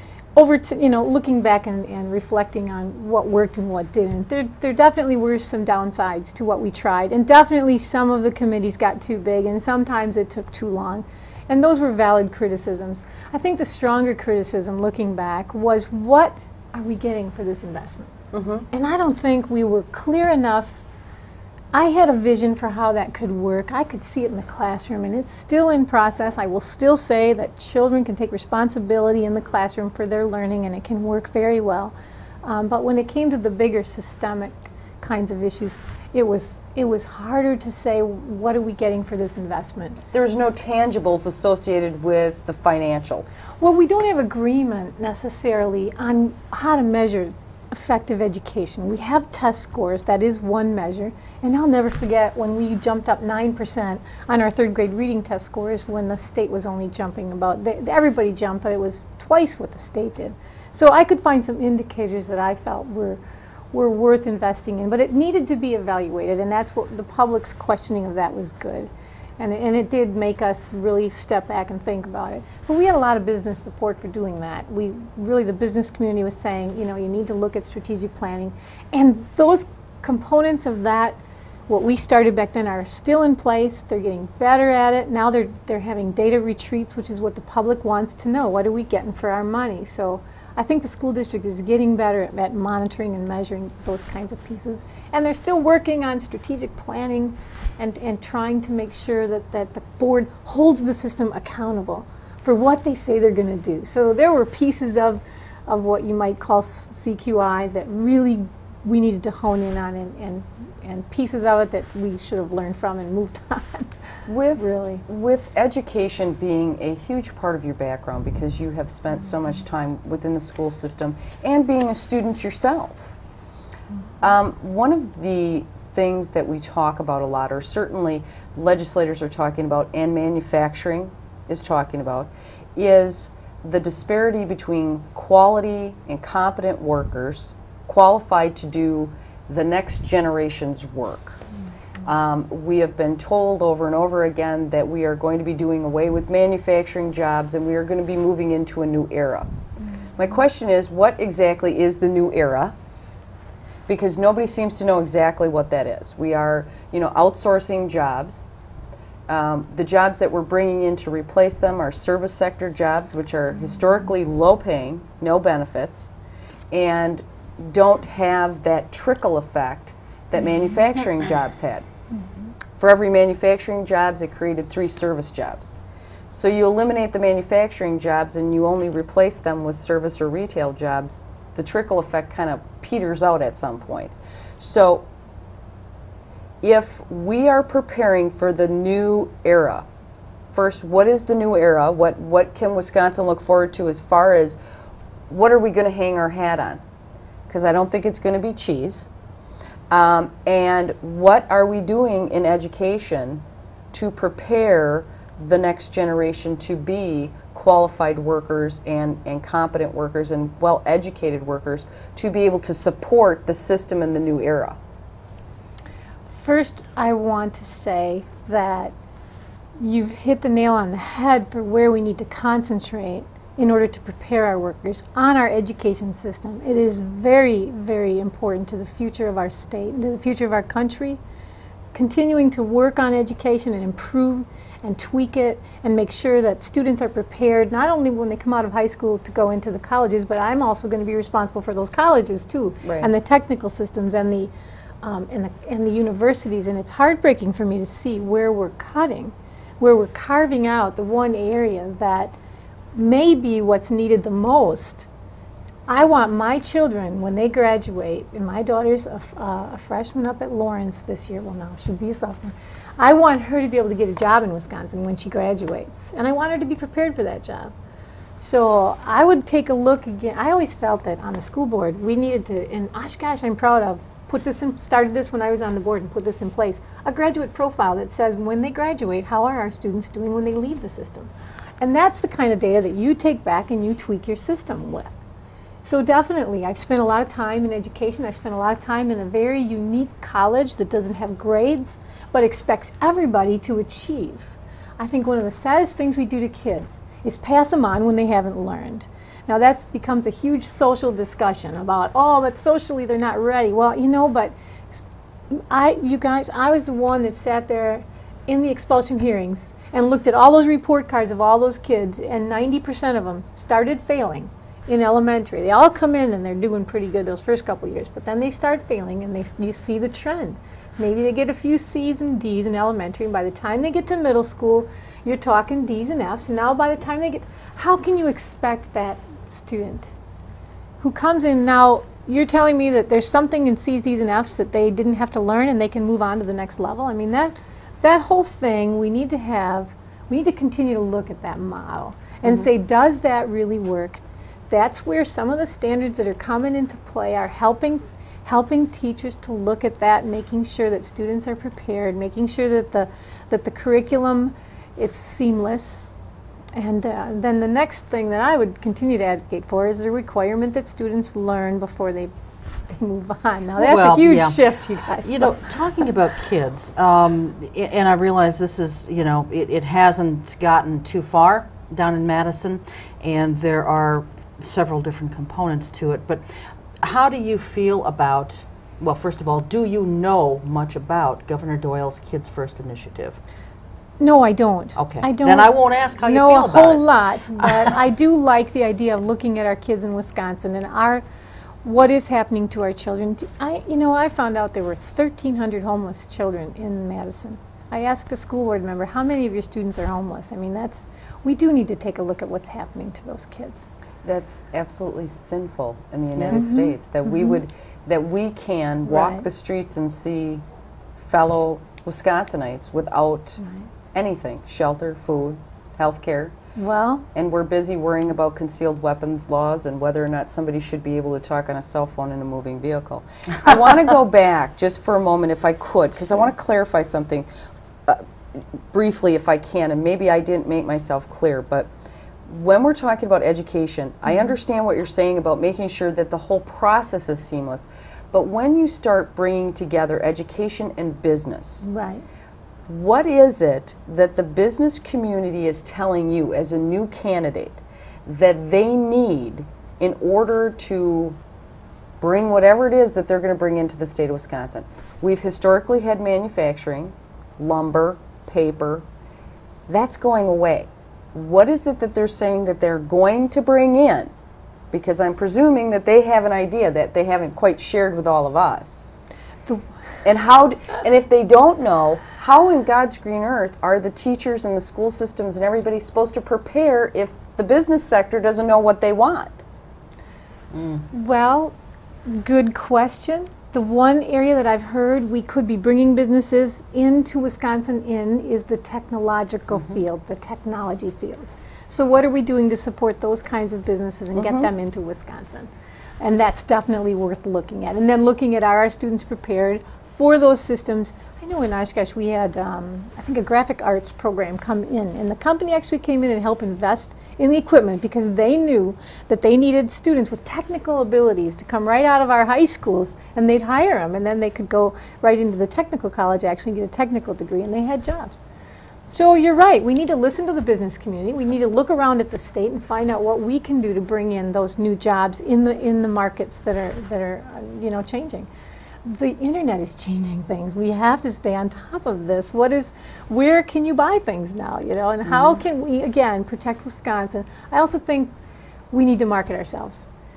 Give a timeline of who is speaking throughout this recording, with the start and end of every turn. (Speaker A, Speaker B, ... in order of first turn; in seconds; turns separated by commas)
Speaker A: 0.3-18.1, Speaker B: 18.3-18.6, Speaker A: 18.7-20.8, Speaker A: 21.7-40.0, Speaker B: 40.1-43.4, Speaker A: 43.6-63.2, Speaker A: 63.7-113.9, Speaker B: 114.3-123.2, Speaker A: 114.6-115.0, Speaker B: 124.2-141.4, Speaker B: 142.1-149.5, Speaker B: 150.2-152.7, Speaker B: 153.9-158.5, Speaker B: 159.3-166.1, Speaker B: 166.7-171.8, Speaker B: 172.8-175.8, Speaker B: 176.3-185.1, Speaker B: 186.6-189.9, Speaker B: 190.5-194.6, Speaker B: 195.3-196.8, Speaker B: 197.5-199.1, Speaker B: 199.9-214.8, Speaker A: 216.3-218.9, Speaker A: 219.8-231.2, Speaker A: 231.9-244.5, Speaker B: 242.8-243.1, Speaker A: 245.0-252.3, Speaker A: 252.9-255.1, Speaker A: 255.9-267.7, Speaker A: 268.4-285.1, Speaker A: 285.8-330.1, Speaker A: 331.0-356.1, Speaker A: 356.8-362.3, Speaker A: 362.9-365.7, Speaker C: 363.8-376.5, Speaker C: 377.0-383.4, Speaker A: 384.2-385.7, Speaker C: 385.0-387.0, Speaker A: 386.2-391.2, Speaker C: 387.6-387.9, Speaker A: 391.9-403.9, Speaker B: 404.2-410.6, Speaker C: 406.4-406.7, Speaker A: 406.5-407.6, Speaker A: 409.1-409.4, Speaker B: 411.2-413.6, Speaker A: 413.6-413.9, Speaker B: 414.1-416.5, Speaker A: 416.8-417.3, Speaker B: 417.3-427.5, Speaker B: 428.1-431.9, Speaker B: 432.5-441.9, Speaker A: 441.9-442.2, Speaker B: 442.9-451.4, Speaker B: 452.2-459.0, Speaker B: 459.9-464.3, Speaker B: 464.9-469.1, Speaker B: 470.2-479.6, Speaker C: 480.7-481.1, Speaker A: 481.1-481.8, Speaker A: 482.3-518.4, Speaker B: 494.4-494.7, Speaker A: 519.1-528.5, Speaker A: 529.0-538.3, Speaker A: 538.9-540.1